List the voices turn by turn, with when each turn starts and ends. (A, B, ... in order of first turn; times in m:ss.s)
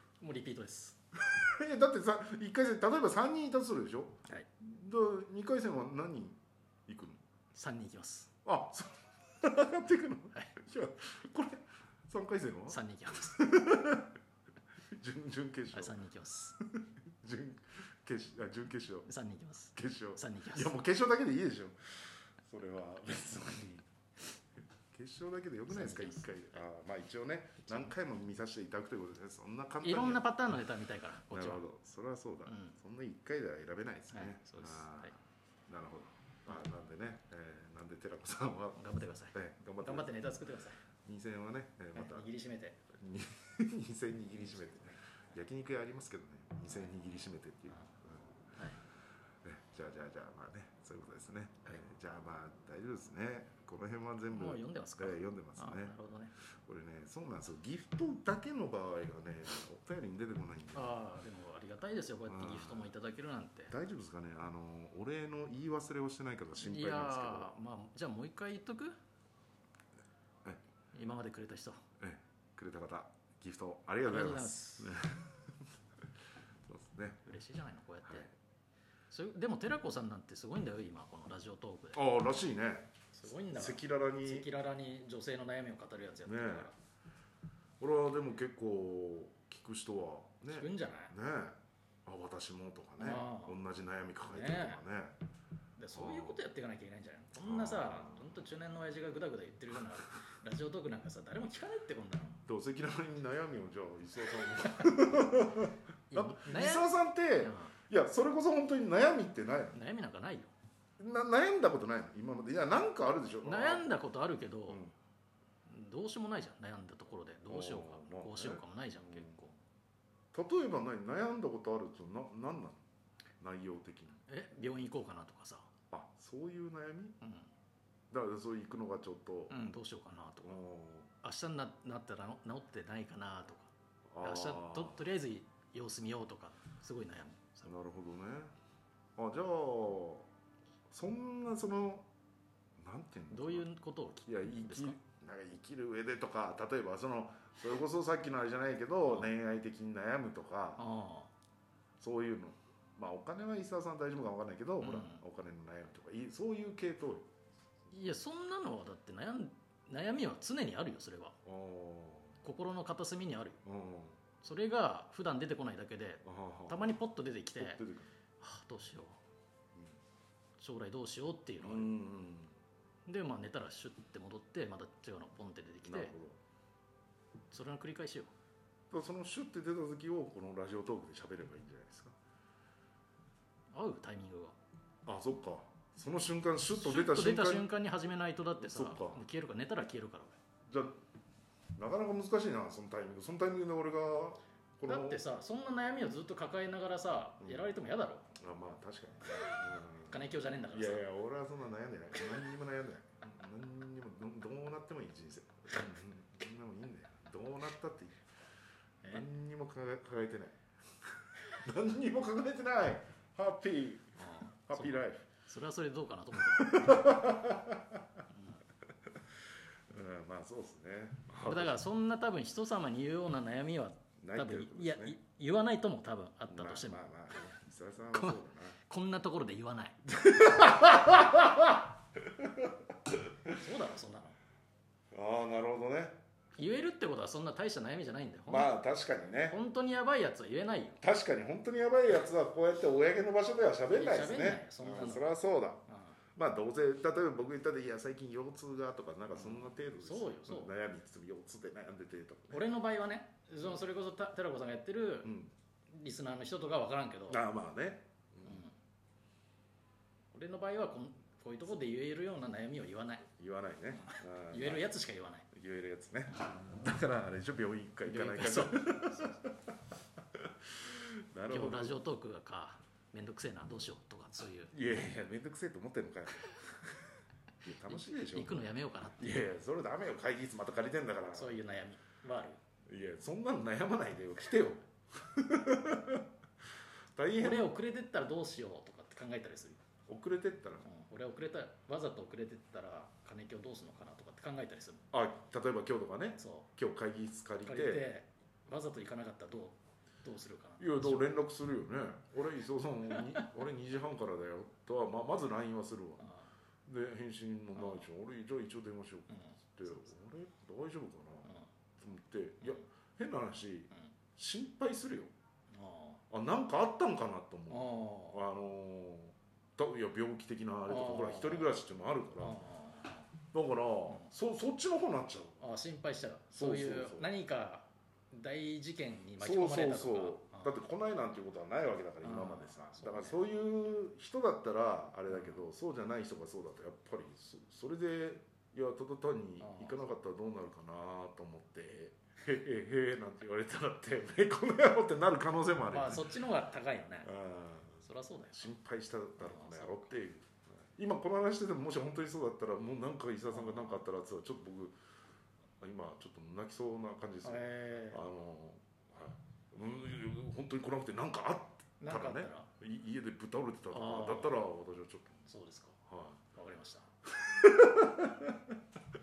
0:00.2-0:01.0 A
0:01.2-0:07.2 B
0:07.5-0:08.3 A
0:08.4-0:14.1 B
0:12.7-0:13.4 A
0:14.9-0:16.0 B
0:15.7-0:16.6 A
0:16.8-0:19.1 B
0:19.0-0:20.7 A
0:19.8-0:23.9 B
0:24.9-0:30.2 B
0:25.7-0:26.6 A
0:29.8-0:31.6 A
0:31.3-0:35.1 B
0:32.4-0:32.8 A
0:34.1-0:35.2 A
0:35.7-0:38.8 B
0:38.7-0:40.8 A
0:39.3-0:40.3 B
0:41.0-0:42.3 B
0:41.9-0:42.8 A
0:42.9-0:48.2 B
0:48.6-0:48.8 A
0:49.4-0:56.0 B
0:54.3-0:56.3 A
0:56.6-1:01.0 B
1:00.7-1:03.7 A
1:02.3-1:02.9 B
1:03.7-1:07.6 B
1:06.6-1:08.9 A
1:10.9-1:11.8 A
1:12.0-1:15.4 B
1:14.1-1:15.0 A
1:16.7-1:17.2 B
1:17.2-1:18.3 A
1:18.0-1:18.3 B
1:19.1-1:22.0 A
1:21.9-1:22.9 B
1:23.1-1:26.7 A
1:23.5-1:24.5 B
1:26.2-1:26.7 B
1:27.8-1:35.2 B
1:30.5-1:31.1 A
1:33.0-1:33.6 A
1:34.2-1:34.8 A
1:35.8-1:42.4 A
1:35.9-1:36.4 B
1:37.4-1:38.3 B
1:42.5-1:49.8 B
1:44.6-1:45.1 A
1:46.1-1:47.7 A
1:49.7-1:50.5 A
1:51.0-1:53.9 B
1:53.4-1:54.8 A
1:54.7-1:54.9 B
1:55.7-1:59.5 A
1:57.5-1:59.4 B
2:00.3-2:02.8 B
2:03.4-2:04.2 B
2:04.3-2:05.7 A
2:05.9-2:07.2 B
2:07.2-2:07.5 A
2:08.1-2:09.6 B
2:09.5-2:10.6 A
2:10.4-2:11.1 B
2:11.2-2:17.7 A
2:14.1-2:15.0 B
2:17.6-2:18.5 B
2:19.2-2:20.3 B
2:20.9-2:22.1 B
2:22.8-2:23.7 B
2:23.3-2:25.0 A
2:24.2-2:30.9 B
2:29.0-2:29.3 A
2:30.8-2:31.3 A
2:32.0-2:37.3 B
2:34.8-2:35.2 A
2:37.9-2:41.4 A
2:41.4-2:42.4 B
2:42.4-2:43.6 A
2:43.6-2:44.2 B
2:44.4-2:47.8 A
2:46.2-2:46.8 B
2:47.6-2:48.1 B
2:48.4-2:49.2 A
2:50.6-2:52.0 A
2:51.6-2:52.5 B
2:53.1-2:56.1 A
2:55.8-2:56.4 B
2:57.5-2:58.3 A
2:58.9-3:02.1 B
3:03.7-3:04.6 A
3:05.0-3:07.7 B
3:06.7-3:10.4 A
3:08.6-3:09.2 B
3:10.7-3:11.0 B
3:11.8-3:15.2 B
3:14.8-3:18.3 A
3:17.4-3:17.7 B
3:18.3-3:28.2 B
3:19.3-3:21.0 A
3:29.0-3:29.3 A
3:29.0-3:30.6 B
3:31.4-3:35.3 B
3:34.2-3:37.2 A
3:36.5-3:38.1 B
3:38.3-3:38.6 A
3:39.9-3:41.8 B
3:41.4-3:47.5 A
3:44.2-3:45.2 B
3:46.5-3:48.8 B
3:48.1-3:50.0 A
3:50.1-3:52.7 B
3:53.5-3:54.3 A
3:55.1-3:56.2 B
3:56.6-3:58.7 A
3:58.5-3:59.6 B
3:59.4-4:01.0 A
4:01.0-4:05.8 B
4:03.9-4:05.3 A
4:05.9-4:06.2 A
4:06.4-4:12.6 B
4:09.3-4:10.7 A
4:12.5-4:15.3 A
4:15.2-4:15.5 B
4:15.9-4:17.4 A
4:17.3-4:18.6 B
4:18.4-4:18.7 A
4:20.3-4:23.3 A
4:23.4-4:24.9 B
4:24.0-4:25.5 A
4:25.5-4:29.6 B
4:28.0-4:29.4 A
4:30.4-4:32.0 B
4:31.5-4:34.8 A
4:34.7-4:36.6 B
4:37.6-4:41.6 B
4:37.9-4:39.5 A
4:41.3-4:42.6 A
4:42.8-4:46.2 B
4:47.1-4:47.7 B
4:47.4-4:49.8 A
4:50.1-4:50.9 B
4:50.8-4:55.0 A
4:55.1-4:58.0 B
4:56.4-4:56.7 A
4:57.6-5:01.4 A
5:00.8-5:06.2 B
5:06.2-5:06.5 A
5:06.8-5:15.3 B
5:07.7-5:08.0 A
5:09.3-5:10.1 A
5:15.7-5:16.2 A
5:16.3-5:22.6 B
5:17.7-5:18.4 A
5:20.8-5:21.8 A
5:22.4-5:23.3 A
5:23.5-5:25.6 B
5:25.6-5:30.7 A
5:26.5-5:27.3 B
5:29.4-5:46.4 B
5:32.2-5:33.4 A
5:35.3-5:35.6 A
5:39.6-5:40.1 A
5:45.9-5:47.3 A
5:47.2-5:48.0 B
5:48.0-5:48.7 A
5:48.5-5:54.9 B
5:49.4-5:50.1 A
5:53.5-5:54.0 A
5:55.8-6:05.4 B
5:57.4-5:58.2 A
6:02.0-6:02.7 A
6:03.9-6:04.6 A
6:05.5-6:06.0 A
6:06.1-6:06.4 B
6:06.5-6:07.1 A
6:07.4-6:08.8 B